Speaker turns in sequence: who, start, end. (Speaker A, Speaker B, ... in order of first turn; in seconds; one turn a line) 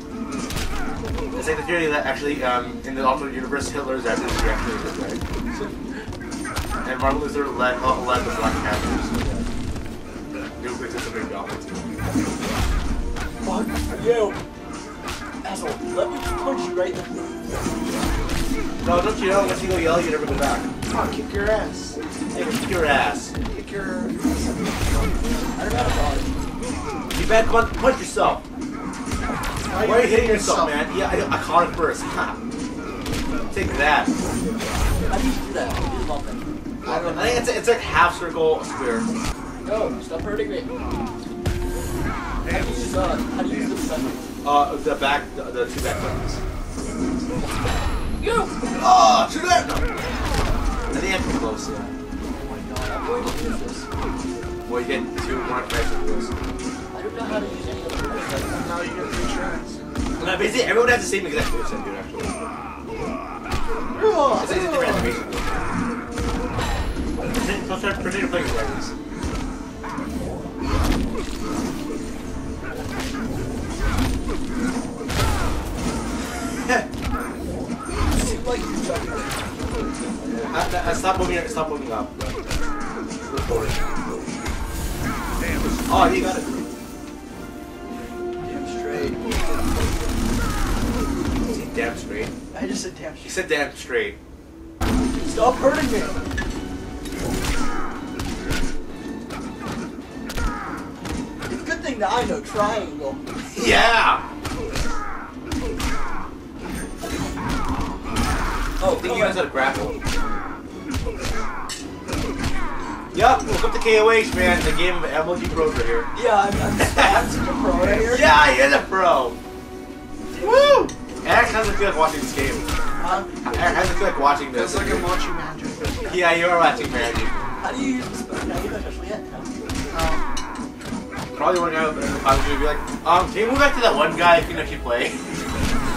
Speaker A: 1.3-5.7
Speaker A: 6.8-9.5
Speaker A: 10.6-11.9
Speaker B: 13.4-14.4
Speaker B: 15.4-17.4
Speaker A: 18.8-20.7
Speaker C: 20.9-22.0
Speaker A: 22.3-23.3
Speaker C: 23.3-24.7
Speaker B: 25.5-26.4
Speaker A: 27.1-28.4
Speaker C: 29.7-30.8
Speaker A: 29.8-32.4
Speaker A: 33.5-34.1
Speaker B: 35.1-37.4
Speaker A: 36.9-39.1
Speaker C: 36.9-37.3
Speaker B: 39.6-40.7
Speaker B: 42.4-44.3
Speaker A: 44.4-46.4
Speaker B: 48.2-48.5
Speaker A: 48.7-49.9
Speaker A: 50.9-51.9
Speaker B: 52.2-53.8
Speaker A: 54.6-56.3
Speaker B: 56.9-58.8
Speaker C: 58.6-59.8
Speaker A: 60.2-62.4
Speaker B: 63.9-65.0
Speaker C: 64.0-65.1
Speaker A: 64.4-65.7
Speaker A: 67.3-68.9
Speaker B: 78.1-79.6
Speaker A: 80.3-82.5
Speaker A: 83.2-83.8
Speaker A: 85.9-86.7
Speaker B: 88.4-89.4
Speaker A: 91.5-92.3
Speaker B: 92.5-93.4
Speaker A: 93.2-94.2
Speaker B: 95.1-96.2
Speaker B: 101.5-103.2
Speaker A: 103.5-104.3
Speaker B: 108.8-109.4
Speaker A: 108.9-110.0
Speaker A: 113.1-116.1
Speaker B: 116.1-118.2
Speaker A: 116.8-117.2
Speaker C: 117.8-118.1
Speaker A: 118.0-119.4
Speaker C: 120.4-120.9
Speaker A: 121.2-122.7
Speaker B: 123.0-123.8
Speaker C: 123.0-123.4
Speaker A: 123.4-125.1
Speaker C: 124.5-126.2
Speaker A: 126.0-127.4
Speaker B: 127.6-129.6
Speaker C: 129.9-130.2
Speaker A: 131.3-135.3